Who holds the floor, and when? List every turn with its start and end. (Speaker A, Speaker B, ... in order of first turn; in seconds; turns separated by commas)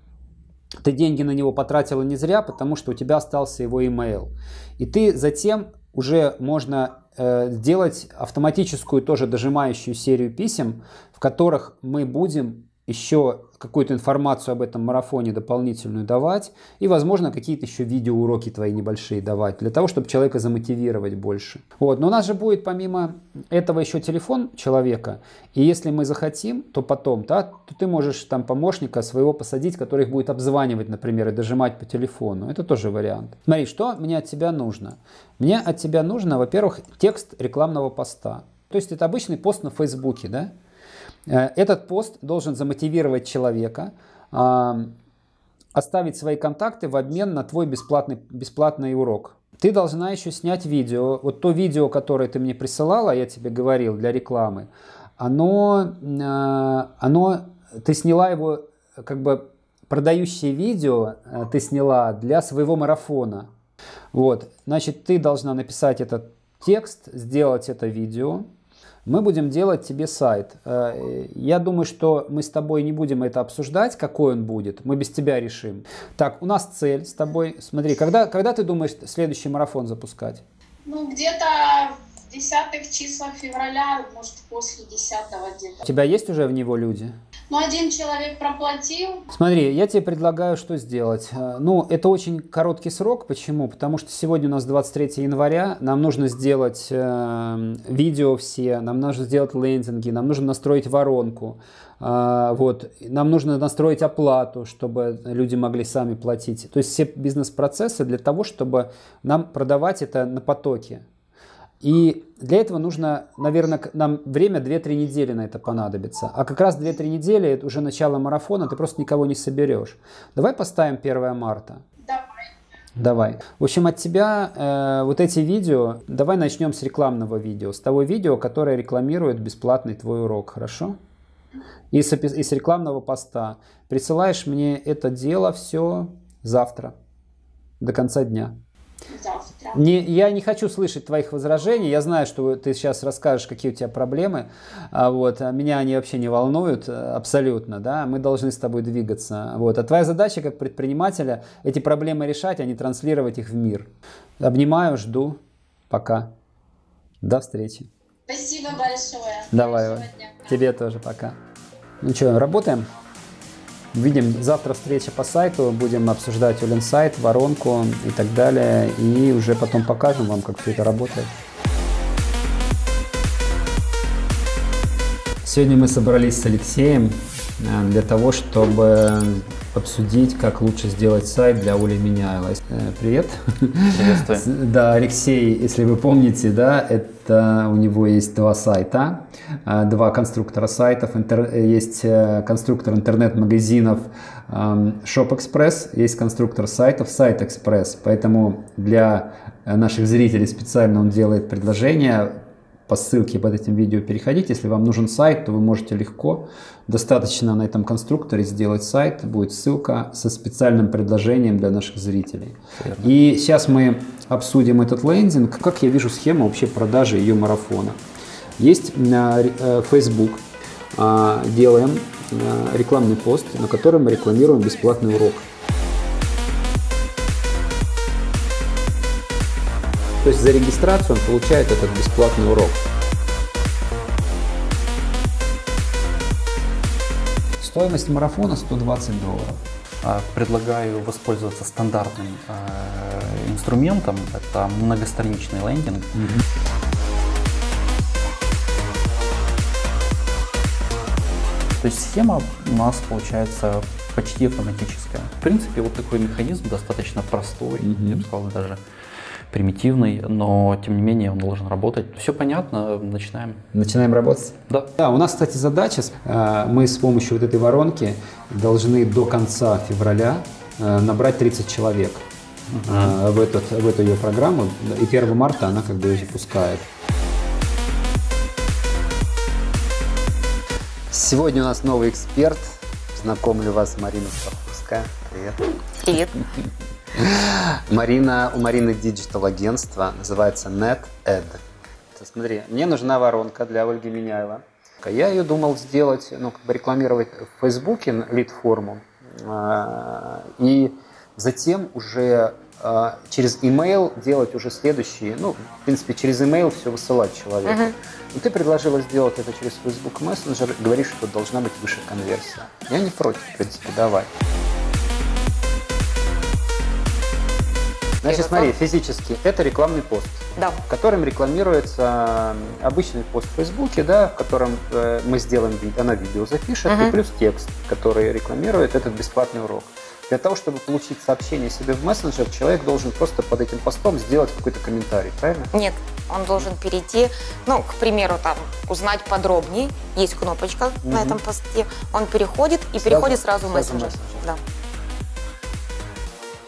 Speaker A: 0.8-40.5, Speaker A: 41.3-45.0, Speaker A: 45.7-63.5, Speaker A: 64.1-68.5, Speaker A: 69.0-80.4, Speaker B: 80.8-85.8, Speaker A: 85.8-87.2, Speaker B: 87.5-89.2, Speaker A: 89.3-111.0, Speaker A: 111.8-121.8, Speaker B: 122.0-122.5, Speaker A: 123.0-131.0, Speaker A: 131.9-136.9, Speaker A: 137.8-138.6, Speaker B: 139.1-139.8, Speaker A: 139.7-156.3, Speaker A: 157.2-157.9, Speaker B: 158.3-160.6, Speaker A: 159.5-161.4, Speaker A: 162.0-162.9, Speaker A: 163.9-171.3, Speaker A: 175.4-218.0, Speaker C: 183.9-184.5, Speaker A: 218.6-220.4, Speaker A: 220.9-225.5, Speaker A: 230.2-232.8, Speaker A: 237.6-239.6, Speaker C: 240.0-246.4, Speaker C: 251.8-258.9, Speaker A: 257.8-258.2, Speaker C: 259.5-263.6, Speaker A: 263.7-272.2, Speaker C: 272.7-273.1, Speaker A: 272.8-276.9, Speaker A: 281.1-285.6, Speaker D: 286.0-286.4, Speaker A: 287.1-291.6, Speaker A: 292.1-314.3, Speaker D: 307.6-307.9, Speaker A: 318.2-335.7, Speaker D: 318.2-318.7, Speaker D: 320.6-320.8, Speaker D: 326.9-327.2, Speaker D: 335.7-344.6, Speaker A: 341.0-341.4, Speaker A: 343.0-344.4